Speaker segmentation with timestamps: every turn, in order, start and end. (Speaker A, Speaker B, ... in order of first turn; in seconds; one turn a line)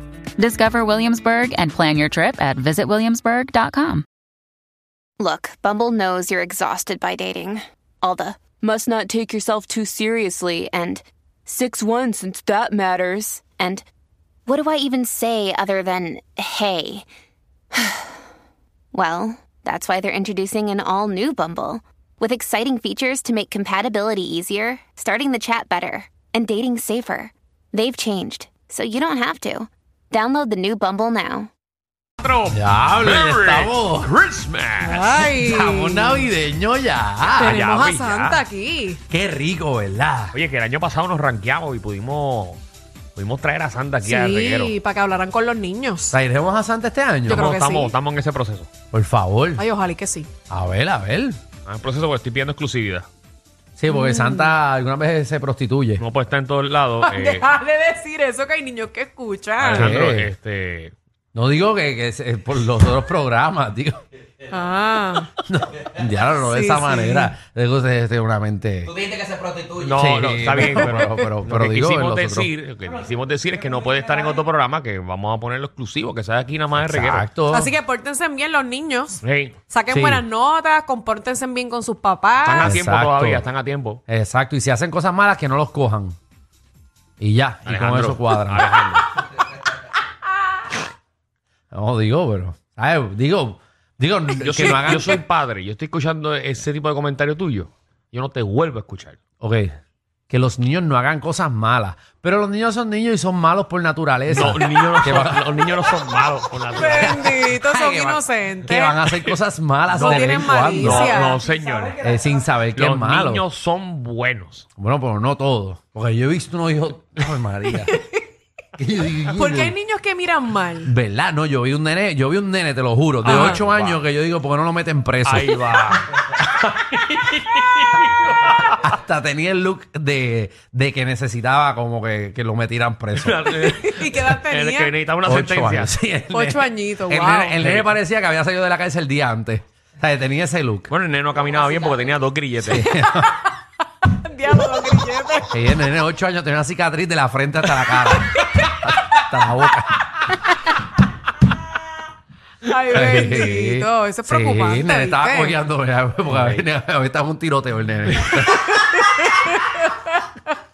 Speaker A: 0.4-4.0
Speaker B: 5.2-13.8
Speaker B: 14.5-17.1
Speaker B: 17.7-18.2
Speaker B: 18.9-31.5
Speaker C: 32.2-35.2
Speaker D: 32.5-34.1
Speaker E: 34.8-36.3
Speaker D: 35.3-37.6
Speaker E: 37.4-39.0
Speaker C: 37.4-38.4
Speaker D: 39.1-40.4
Speaker C: 40.3-42.6
Speaker C: 43.2-44.8
Speaker E: 44.0-46.2
Speaker D: 46.1-47.5
Speaker E: 47.3-48.0
Speaker C: 47.3-48.7
Speaker D: 48.9-49.7
Speaker E: 49.6-50.3
Speaker D: 50.5-51.4
Speaker C: 51.7-53.1
Speaker D: 53.8-56.0
Speaker E: 53.9-54.5
Speaker C: 56.0-57.5
Speaker E: 57.0-59.9
Speaker C: 59.6-60.9
Speaker D: 59.7-60.3
Speaker D: 61.3-64.0
Speaker E: 64.5-65.3
Speaker D: 65.5-69.1
Speaker E: 66.4-67.3
Speaker C: 69.8-77.3
Speaker D: 69.9-72.5
Speaker D: 76.8-77.7
Speaker E: 77.5-82.7
Speaker C: 79.2-79.6
Speaker D: 79.9-80.2
Speaker C: 82.4-84.0
Speaker D: 82.6-83.5
Speaker D: 84.1-86.2
Speaker D: 87.2-88.7
Speaker C: 87.7-89.1
Speaker D: 91.7-95.2
Speaker C: 94.4-99.2
Speaker D: 99.4-99.8
Speaker D: 100.3-105.4
Speaker C: 104.3-107.4
Speaker E: 106.7-109.0
Speaker D: 106.9-111.3
Speaker C: 109.9-112.1
Speaker E: 110.0-111.5
Speaker D: 112.0-113.5
Speaker C: 112.7-114.7
Speaker D: 114.8-118.0
Speaker E: 117.8-118.2
Speaker D: 118.8-119.8
Speaker E: 119.4-120.9
Speaker D: 120.8-125.6
Speaker C: 123.2-124.0
Speaker E: 123.3-123.6
Speaker C: 125.2-128.9
Speaker D: 128.8-134.2
Speaker C: 133.2-136.0
Speaker E: 133.7-134.9
Speaker D: 135.2-140.9
Speaker E: 136.3-137.6
Speaker C: 137.6-137.9
Speaker C: 140.9-143.0
Speaker D: 142.6-143.4
Speaker E: 144.0-145.5
Speaker D: 145.5-150.4
Speaker E: 152.7-155.6
Speaker D: 152.9-159.0
Speaker C: 156.3-156.7
Speaker C: 158.1-158.4
Speaker E: 158.7-160.2